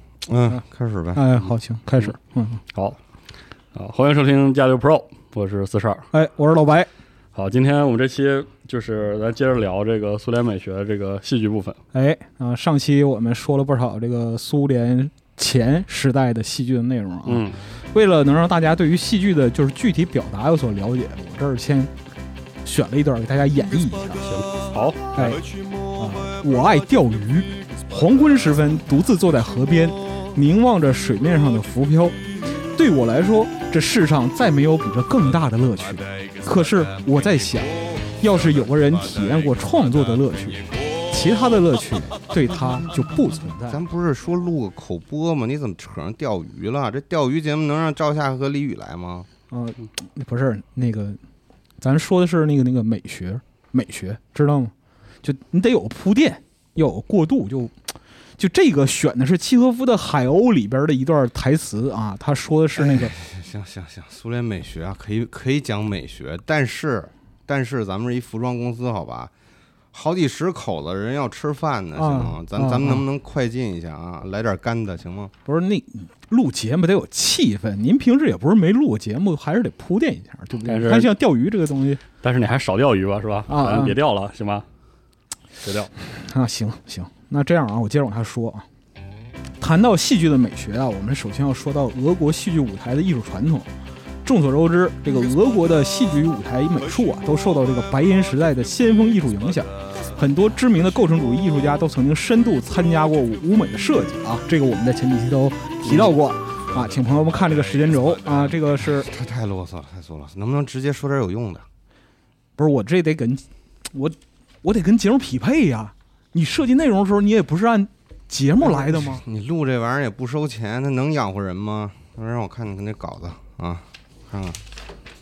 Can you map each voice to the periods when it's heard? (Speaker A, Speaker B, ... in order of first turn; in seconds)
Speaker A: 0.2-1.2, 43.7-49.3, 62.8-69.3, 69.9-75.3, 107.8-111.7, 118.6-124.6
Speaker B: 1.1-2.6, 6.1-6.9, 11.9-21.9, 22.6-24.2, 25.1-43.8, 49.5-51.2, 51.8-63.1, 72.0-73.0, 75.5-82.0, 83.5-84.0, 86.1-88.7, 89.6-93.7, 94.2-109.1, 112.6-119.2
Speaker C: 2.7-3.0, 3.7-6.1, 7.3-11.8, 17.2-17.6, 24.2-25.3, 80.6-81.1, 82.2-84.7, 85.6-85.9